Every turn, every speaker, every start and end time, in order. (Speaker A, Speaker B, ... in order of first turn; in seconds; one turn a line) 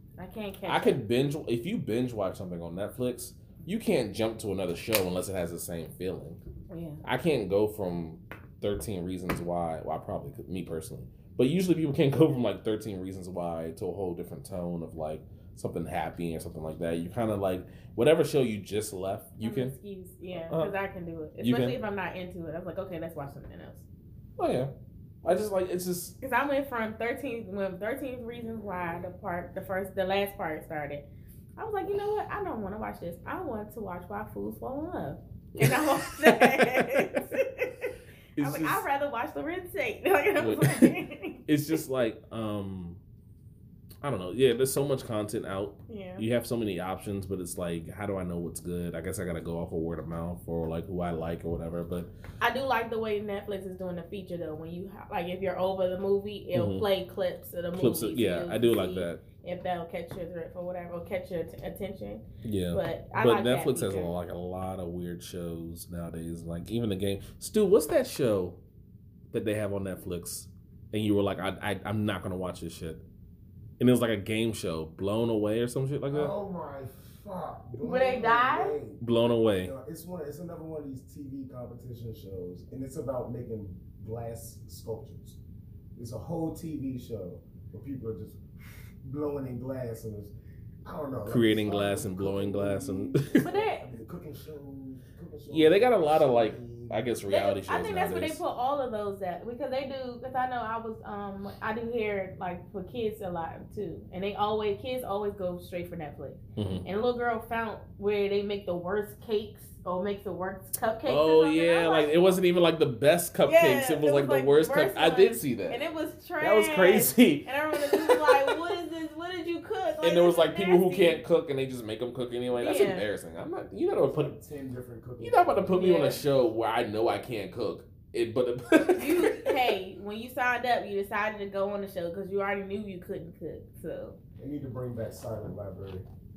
Speaker A: 0.2-1.0
Speaker B: 0.7-6.4
Speaker A: 6.7-7.0
Speaker B: 7.0-19.7
Speaker A: 19.4-23.9
Speaker B: 20.3-20.7
Speaker B: 21.4-21.8
Speaker B: 24.4-24.7
Speaker B: 25.2-26.2
Speaker A: 26.2-31.1
Speaker A: 31.6-41.8
Speaker B: 35.5-37.4
Speaker B: 38.4-38.9
Speaker B: 40.4-43.0
Speaker B: 44.0-52.1
Speaker A: 45.9-46.2
Speaker A: 52.4-64.1
Speaker B: 56.5-56.9
Speaker B: 57.8-59.2
Speaker B: 62.4-68.6
Speaker B: 69.3-73.0
Speaker B: 73.8-76.3
Speaker C: 76.1-79.0
Speaker A: 77.8-78.8
Speaker B: 79.0-79.7
Speaker C: 79.6-85.4
Speaker C: 86.0-88.4
Speaker C: 89.0-90.3
Speaker C: 90.8-97.2
Speaker B: 91.3-93.5
Speaker A: 93.4-93.9
Speaker B: 95.5-98.4
Speaker A: 97.3-112.4
Speaker B: 106.6-106.8
Speaker B: 111.1-115.8
Speaker A: 113.5-121.2
Speaker B: 116.4-118.6
Speaker B: 120.0-124.4
Speaker A: 122.5-123.0
Speaker C: 124.0-125.6
Speaker B: 125.2-129.6
Speaker A: 125.7-126.2
Speaker A: 128.9-134.2
Speaker C: 134.4-136.1